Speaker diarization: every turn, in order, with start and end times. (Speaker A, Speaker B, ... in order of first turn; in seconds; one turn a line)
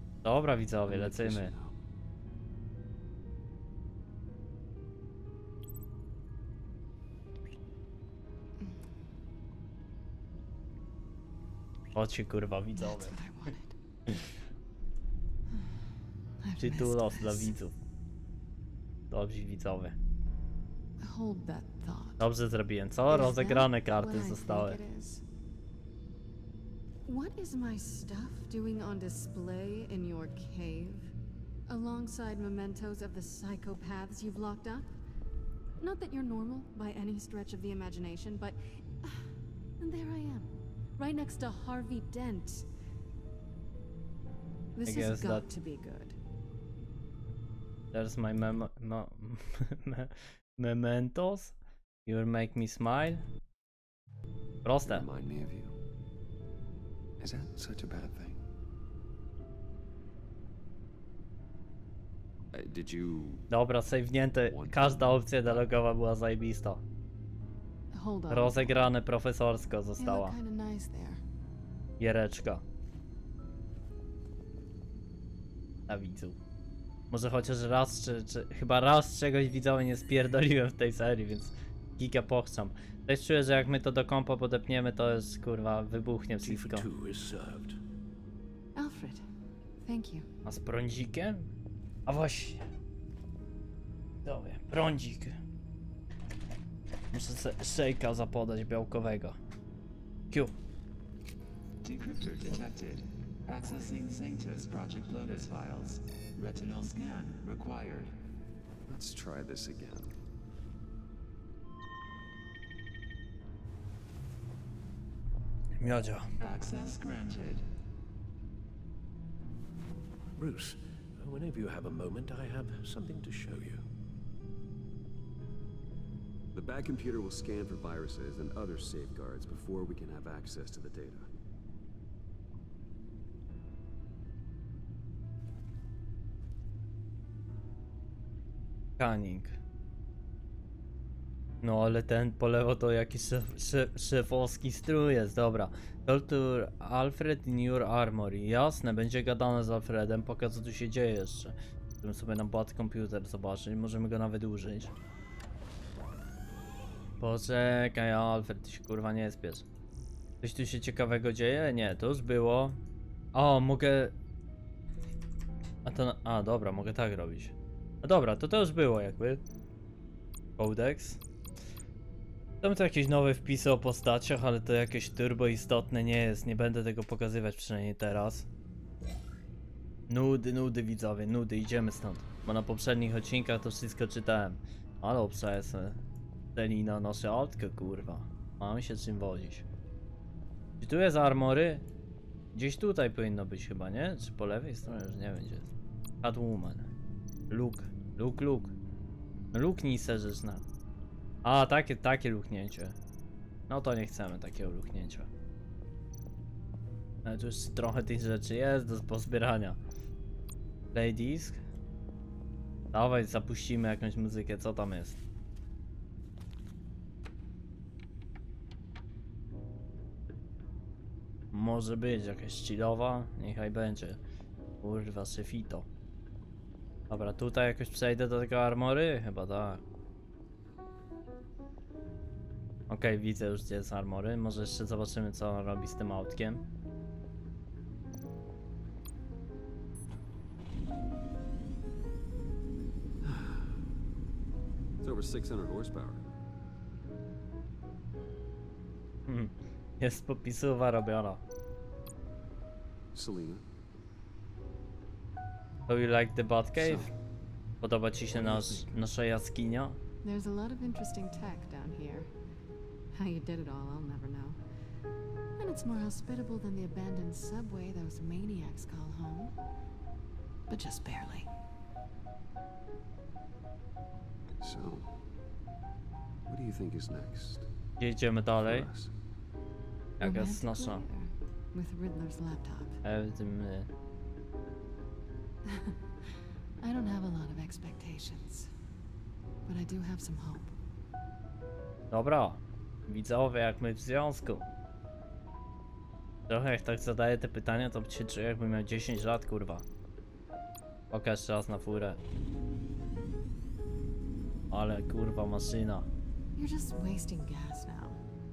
Speaker A: 0.2-1.5
Speaker B: 0.9-1.7
Speaker A: 11.9-13.2
Speaker C: 12.8-13.7
Speaker C: 16.4-17.6
Speaker A: 16.6-17.7
Speaker A: 19.1-20.0
Speaker C: 21.0-22.2
Speaker A: 22.2-24.8
Speaker C: 23.1-25.2
Speaker C: 27.1-31.1
Speaker C: 31.7-35.0
Speaker C: 35.8-42.7
Speaker C: 44.8-46.2
Speaker A: 44.9-45.5
Speaker A: 47.9-51.5
Speaker A: 52.1-53.2
Speaker A: 54.6-55.0
Speaker B: 54.8-55.8
Speaker B: 57.2-58.4
Speaker B: 62.5-63.5
Speaker A: 63.5-66.8
Speaker B: 64.4-65.5
Speaker C: 67.9-68.9
Speaker A: 68.3-70.3
Speaker C: 70.0-71.2
Speaker A: 72.0-72.6
Speaker A: 75.9-76.4
Speaker A: 77.1-86.9
Speaker D: 86.4-87.8
Speaker C: 88.8-89.2
Speaker C: 89.8-90.3
Speaker A: 90.5-91.5
Speaker A: 92.1-92.7
Speaker A: 94.2-95.4
Speaker A: 97.1-99.4
Speaker E: 101.8-108.2
Speaker B: 108.9-110.1
Speaker A: 115.8-116.3
Speaker E: 116.4-117.7
Speaker D: 120.4-123.8
Speaker B: 126.5-131.3
Speaker A: 139.0-139.6
Speaker A: 141.6-154.9
Speaker A: 157.2-159.7
Speaker A: 160.4-162.8
Speaker A: 163.3-164.1
Speaker A: 165.8-169.4
Speaker A: 170.6-171.2
Speaker A: 172.6-178.5
Speaker A: 180.1-186.0
Speaker A: 186.6-189.7
Speaker A: 190.8-191.8
Speaker A: 192.5-195.7
Speaker A: 196.2-196.9
Speaker A: 197.5-198.8
Speaker A: 199.5-200.6
Speaker A: 201.4-203.0
Speaker A: 203.7-205.3
Speaker A: 207.2-209.8
Speaker A: 210.9-211.6
Speaker A: 212.9-215.2
Speaker A: 221.5-224.2
Speaker A: 224.8-225.9
Speaker A: 227.1-229.8
Speaker A: 232.9-236.6
Speaker B: 243.2-243.8
Speaker B: 245.0-246.3
Speaker A: 249.3-251.4
Speaker B: 253.1-253.7
Speaker A: 255.9-257.1
Speaker B: 256.8-257.1
Speaker A: 257.8-260.0
Speaker B: 258.3-259.0
Speaker C: 260.2-262.3
Speaker C: 263.1-264.6
Speaker C: 265.6-269.5
Speaker C: 270.7-271.5
Speaker B: 274.6-275.2
Speaker B: 276.5-277.7
Speaker A: 278.0-278.9
Speaker B: 278.6-279.1
Speaker A: 280.2-281.1
Speaker C: 280.2-283.0
Speaker A: 283.0-283.9
Speaker C: 285.7-286.0
Speaker C: 286.8-288.7
Speaker C: 289.7-290.7
Speaker A: 292.1-294.6
Speaker A: 296.5-299.9
Speaker A: 301.1-302.2
Speaker A: 304.7-306.1
Speaker C: 306.6-308.2